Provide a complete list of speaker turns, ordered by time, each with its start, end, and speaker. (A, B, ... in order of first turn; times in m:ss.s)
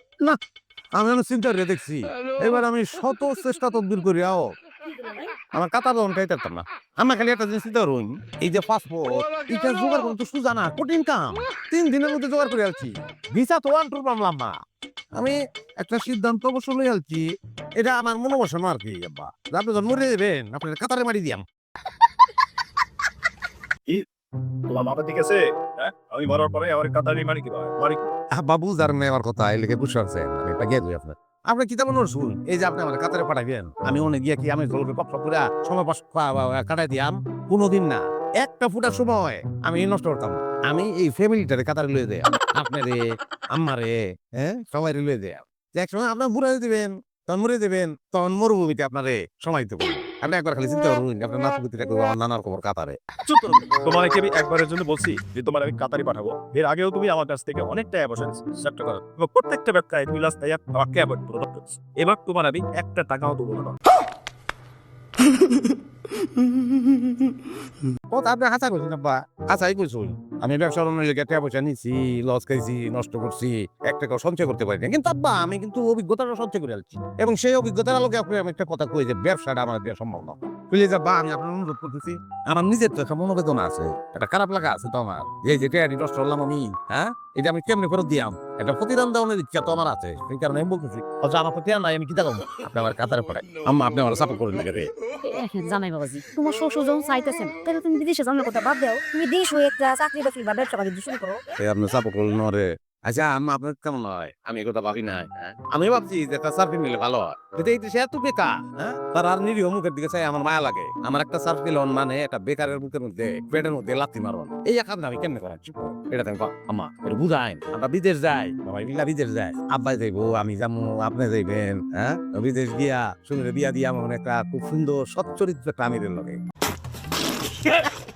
0:01.0-0:04.5 A
0:04.9-0:05.3 B
0:05.5-0:14.6 A
0:15.1-0:17.2 A
0:17.8-0:21.4 A
0:24.7-0:28.1 C
0:28.3-0:43.0 A
0:43.5-0:53.0 A
0:53.2-1:03.8 C
1:08.1-1:34.9 A
1:35.2-1:41.4 B
1:41.6-2:06.4 A